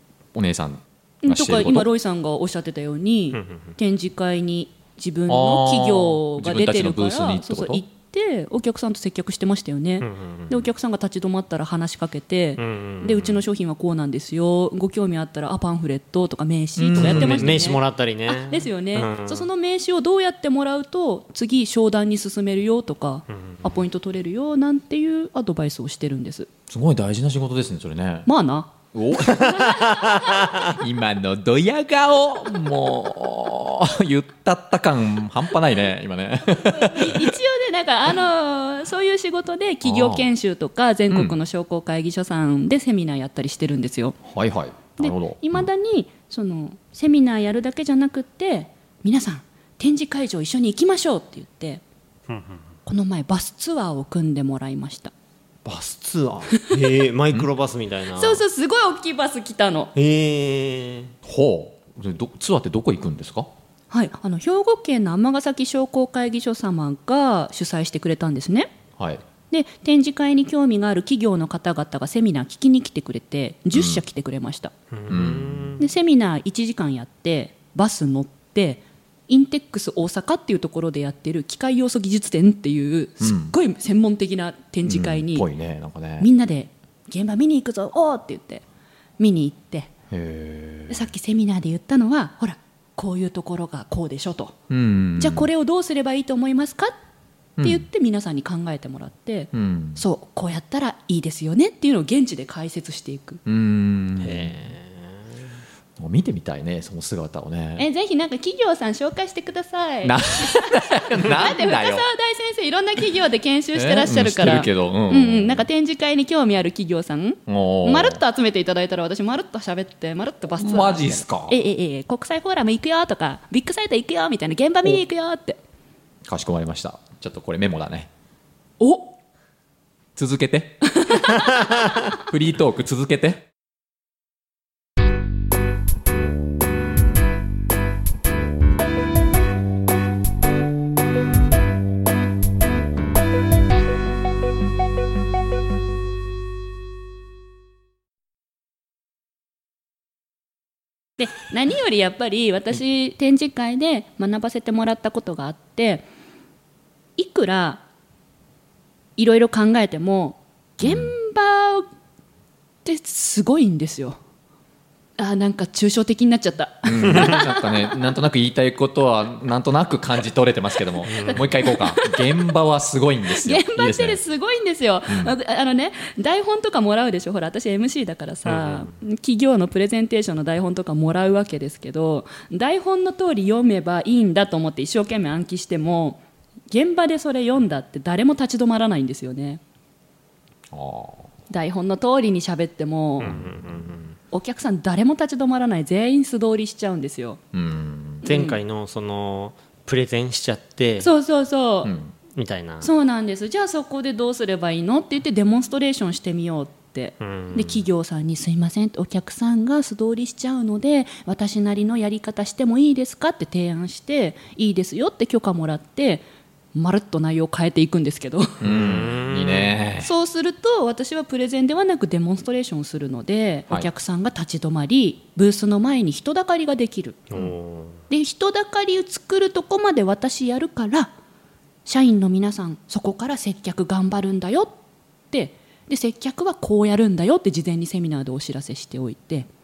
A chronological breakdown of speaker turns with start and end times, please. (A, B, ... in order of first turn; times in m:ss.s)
0:00.3-0:01.9 A
0:01.2-0:26.5 B
0:03.3-0:03.7 C
0:05.3-0:07.8 A
0:10.0-0:10.7 C
0:12.6-0:13.4 C
0:16.8-0:17.7 A
0:16.9-0:19.5 C
0:26.7-0:28.3 A
0:28.3-0:30.8 B
0:28.9-0:37.4 A
0:36.5-0:44.2 B
0:39.8-0:40.3 A
0:41.1-0:41.4 A
0:44.2-0:45.7 A
0:45.0-0:51.8 B
0:52.3-0:52.6 C
0:52.9-0:55.1 B
0:55.6-0:58.4 C
0:56.5-0:57.0 B
0:58.1-0:59.9 B
1:00.0-1:01.1 C
1:01.2-1:03.5 A
1:03.9-1:08.7 B
1:09.0-1:09.2 A
1:09.5-1:14.7 B
1:13.7-1:14.0 A
1:14.9-1:15.9 C
1:15.1-1:15.8 A
1:15.8-1:25.5 B
1:23.2-1:23.6 A
1:24.8-1:26.3 A
1:26.2-1:28.6 B
1:29.2-1:29.9 B
1:30.1-1:31.1 A
1:30.9-1:34.6 B
1:34.7-1:35.5 A
1:35.2-1:37.0 B
1:37.6-1:37.9 A
1:37.6-1:43.4 B
1:39.5-1:40.0 A
1:43.5-1:44.6 A
1:44.2-1:45.3 C
1:46.0-1:47.9 A
1:47.8-2:05.6 B
1:50.0-1:52.1 A
1:53.7-1:55.6 A
1:57.5-1:58.2 A
2:00.6-2:01.6 A
2:06.2-2:08.1 A
2:08.8-2:09.1 B
2:10.2-2:11.2 A
2:10.9-2:12.0 B
2:12.1-2:13.5 A
2:31.2-2:36.1 B
2:37.2-2:37.8 B
2:39.2-2:41.9 B
2:40.8-2:41.1 A
2:42.8-2:44.2 B
2:45.2-2:48.0 B
2:46.8-2:54.2 A
2:51.1-2:51.5 C
2:51.1-2:52.5 B
2:53.3-3:09.6 B
2:55.1-2:55.3 A
2:58.4-2:58.9 C
3:10.7-3:11.3 A
3:11.5-3:13.4 B
3:13.2-3:14.2 C
3:14.3-3:17.4 B
3:17.5-3:18.2 A
3:18.2-3:18.6 B
3:18.2-3:21.1 C
3:21.0-3:21.9 B
3:21.8-3:22.1 A
3:22.4-3:22.9 C
3:22.8-3:38.6 B
3:27.2-3:27.8 C
3:38.6-3:40.1 A
3:38.6-3:39.8 C
3:40.0-3:47.2 B
3:47.3-3:48.0 C
3:48.1-3:51.1 B
3:51.9-3:54.7 B
3:55.3-3:59.5 B